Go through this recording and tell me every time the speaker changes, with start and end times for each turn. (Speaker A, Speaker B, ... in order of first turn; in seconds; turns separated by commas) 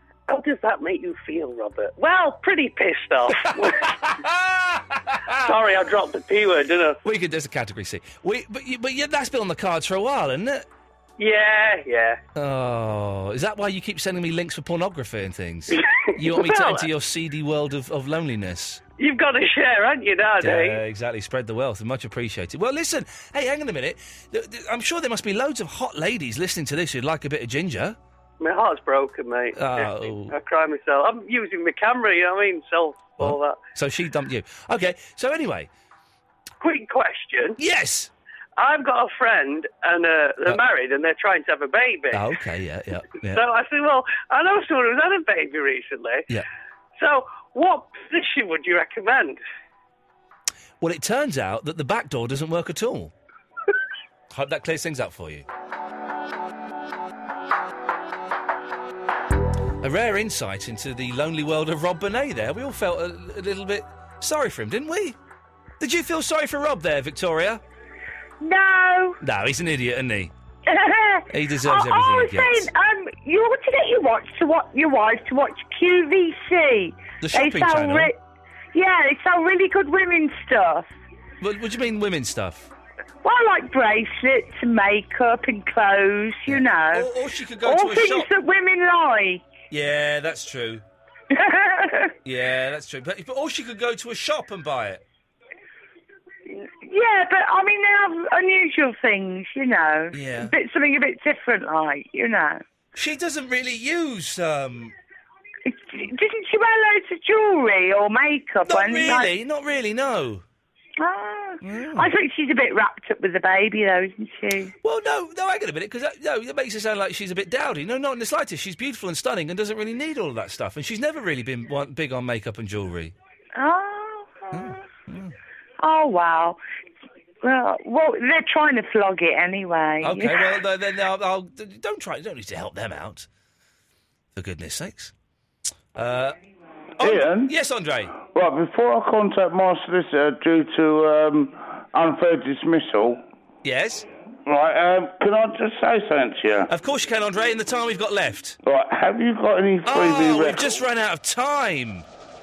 Speaker A: 0.3-3.9, Speaker B: 3.4-5.6, Speaker A: 5.4-7.0, Speaker B: 7.0-10.7, Speaker A: 11.2-12.2, Speaker B: 12.3-18.8, Speaker A: 15.7-16.9, Speaker A: 19.0-20.8, Speaker B: 20.4-28.0, Speaker A: 28.4-33.6, Speaker B: 29.6-30.3, Speaker B: 33.2-35.7, Speaker A: 36.6-37.6, Speaker B: 37.6-38.1, Speaker A: 38.6-42.3, Speaker B: 42.1-43.4, Speaker A: 43.2-46.3, Speaker A: 47.0-49.4, Speaker B: 50.8-53.1, Speaker B: 54.3-55.5, Speaker B: 59.8-65.2, Speaker B: 65.8-67.6, Speaker C: 68.4-69.2, Speaker B: 69.2-70.3, Speaker C: 70.7-78.2, Speaker B: 71.3-72.7, Speaker B: 77.2-78.1, Speaker C: 78.7-80.9, Speaker B: 81.4-82.7, Speaker C: 83.2-87.1, Speaker B: 86.5-88.3, Speaker C: 87.6-89.5, Speaker B: 89.7-90.8, Speaker C: 91.3-92.1, Speaker B: 92.2-95.0, Speaker C: 96.5-102.6, Speaker B: 100.1-100.5, Speaker B: 103.0-105.0, Speaker C: 105.7-109.3, Speaker B: 108.6-110.4, Speaker C: 111.0-114.7, Speaker B: 111.6-112.1, Speaker B: 114.8-123.2, Speaker C: 123.6-124.8, Speaker B: 124.5-125.3, Speaker C: 125.8-126.6, Speaker C: 127.4-130.5, Speaker B: 130.0-133.3, Speaker B: 134.3-135.1, Speaker B: 135.9-136.4, Speaker B: 137.0-138.2, Speaker D: 137.0-137.5, Speaker D: 138.2-143.2, Speaker B: 143.6-144.1, Speaker D: 144.5-146.7, Speaker B: 146.7-148.6, Speaker D: 148.6-150.8, Speaker B: 149.9-152.1